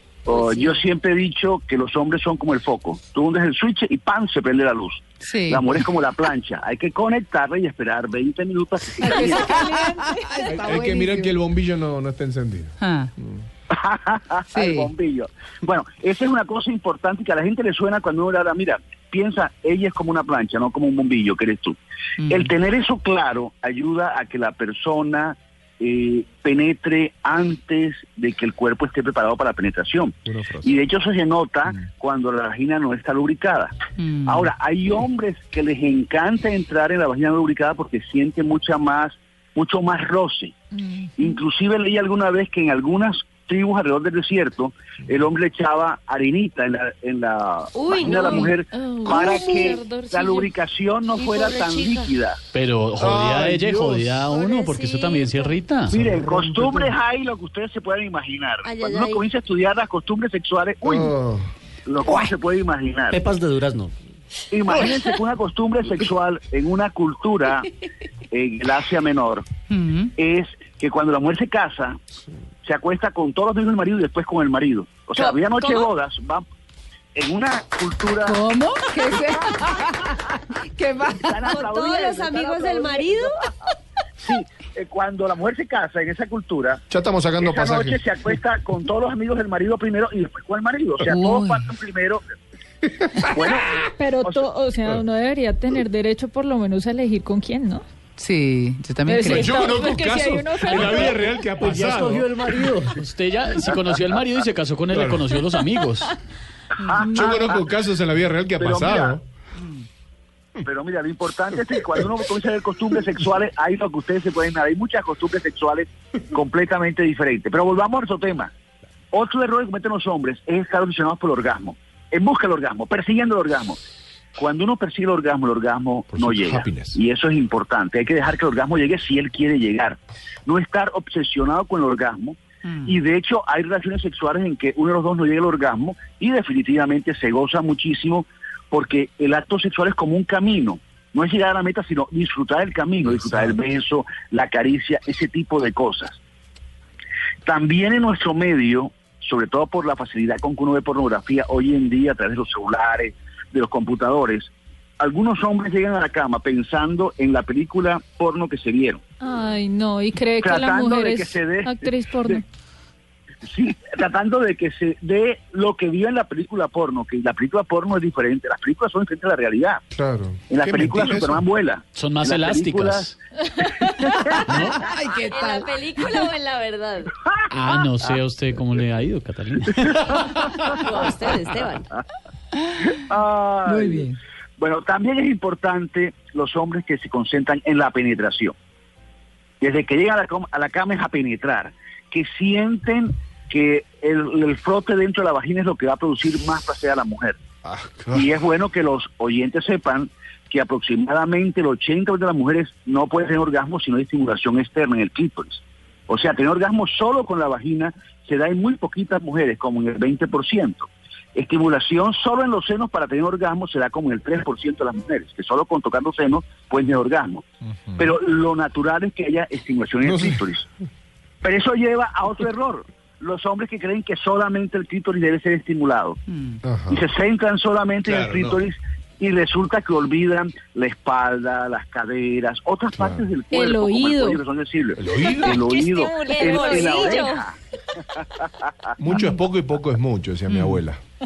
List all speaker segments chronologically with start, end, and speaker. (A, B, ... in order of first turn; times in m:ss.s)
0:00.2-0:09.6 A
0:05.2-0:05.8 B
0:09.0-0:11.3 B
0:09.3-0:11.0 C
0:10.5-0:13.4 D
0:12.8-0:13.1 B
0:13.7-0:21.8 A
0:14.5-0:14.9 B
0:22.2-0:22.5 B
0:22.3-0:33.7 A
0:30.2-0:30.8 D
0:34.0-0:34.5 B
0:34.3-0:40.5 A
0:40.7-0:41.4 C
0:41.2-0:52.4 A
0:47.8-0:50.2 E
0:47.9-0:50.5 C
0:51.1-0:52.2 E
0:52.5-0:56.0 F
0:53.0-0:54.3 D
0:54.3-0:55.6 E
0:55.9-1:01.2 A
0:56.0-0:57.0 D
0:58.6-0:59.3 E
1:00.8-1:01.5 D
1:01.8-1:03.2 A
1:03.1-1:04.0 G
1:04.5-1:07.7 A
1:08.3-1:09.5 A
1:09.7-1:10.1 B
1:10.2-1:12.0 A
1:12.6-1:16.4 A
1:15.2-1:15.9 E
1:17.2-1:18.4 A
1:18.2-1:21.6 B
1:21.2-1:23.3 A
1:21.5-1:23.3 E
1:24.2-1:26.8 A
1:26.9-1:28.3 D
1:27.4-1:32.2 A
1:31.0-1:31.7 B
1:32.8-1:33.9 D
1:33.3-1:33.7 A
1:34.0-1:37.8 C
1:34.2-1:34.5 A
1:38.2-1:39.6 B
1:39.1-1:41.5 C
1:39.2-1:42.4 D
1:41.6-1:43.0 G
1:43.0-1:46.1 F
1:44.9-1:45.3 D
1:46.8-1:47.6 A
1:47.0-1:47.6 C
1:47.1-1:49.2 D
1:48.6-1:49.2 A
1:50.6-1:58.5 A
1:59.1-2:03.8 A
2:04.4-2:26.2 A
2:06.1-2:07.0 D
2:12.6-2:13.0 B
2:27.4-2:39.0 A
2:39.2-2:42.4 C
2:40.4-2:42.4 A
2:43.4-2:49.8 A
2:49.9-2:51.4 D
2:50.5-2:53.1 A
2:52.0-2:53.2 F
2:53.8-2:54.5 A
2:54.3-2:55.9 B
2:54.5-2:54.8 F
2:55.3-2:57.1 E
2:57.5-3:00.4 F
3:00.8-3:01.9 E
3:02.9-3:08.6 A
3:03.6-3:04.2 B
3:09.6-3:17.4 A
3:17.6-3:18.3 D
3:18.1-3:40.7 A
3:37.9-3:38.1 D
3:40.0-3:40.4 D
3:41.4-3:46.2 A
3:46.3-3:46.6 B
3:46.6-3:47.0 D
3:46.9-3:57.6 A
3:48.0-3:48.6 D
3:53.0-3:53.3 D
3:53.5-3:54.4 C
3:55.0-3:55.6 D
3:55.2-3:56.8 C
3:55.4-3:57.4 E
3:59.0-4:01.0 D
3:59.1-3:59.4 B
4:00.5-4:00.8 B